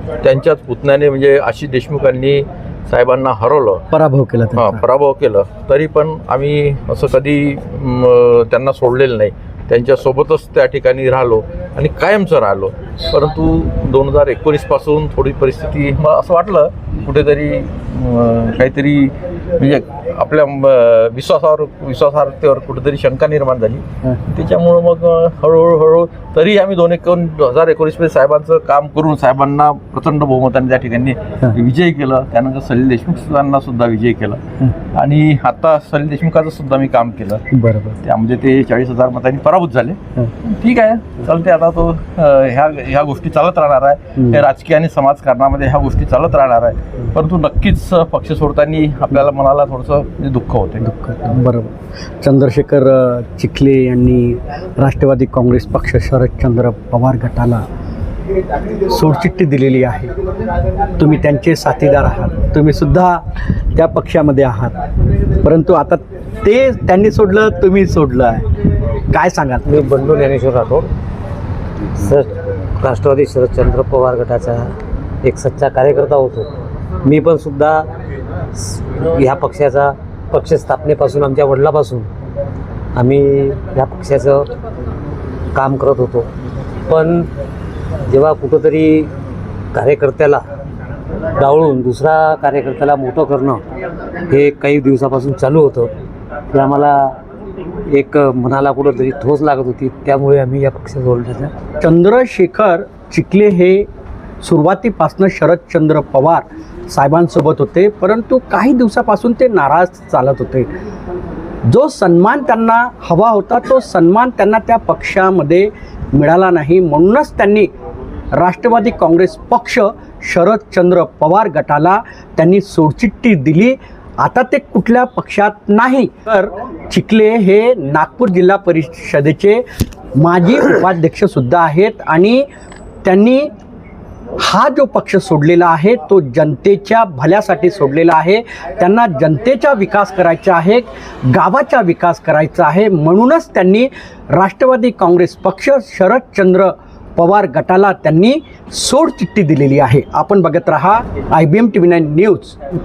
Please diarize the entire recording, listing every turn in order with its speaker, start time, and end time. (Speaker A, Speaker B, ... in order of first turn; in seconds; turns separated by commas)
Speaker A: 0.2-3.9, Speaker B: 3.9-4.8, Speaker A: 4.5-34.4, Speaker A: 34.9-37.4, Speaker B: 37.5-38.0, Speaker A: 38.0-50.9, Speaker B: 50.8-57.6, Speaker B: 58.9-60.1, Speaker B: 61.0-64.8, Speaker B: 65.4-68.5, Speaker B: 69.1-69.8, Speaker C: 69.7-70.9, Speaker C: 72.0-74.7, Speaker C: 75.2-76.5, Speaker C: 77.0-77.9, Speaker C: 78.5-82.1, Speaker C: 83.0-84.5, Speaker C: 85.5-86.3, Speaker C: 86.9-87.3, Speaker C: 88.1-89.1, Speaker C: 89.7-90.5, Speaker C: 91.4-93.6, Speaker C: 94.3-95.9, Speaker C: 96.5-97.2, Speaker C: 97.9-101.5, Speaker B: 101.8-103.9, Speaker B: 104.4-110.7, Speaker B: 111.7-117.7, Speaker B: 118.3-129.6, Speaker B: 130.2-132.5, Speaker B: 133.0-133.5, Speaker B: 134.4-152.6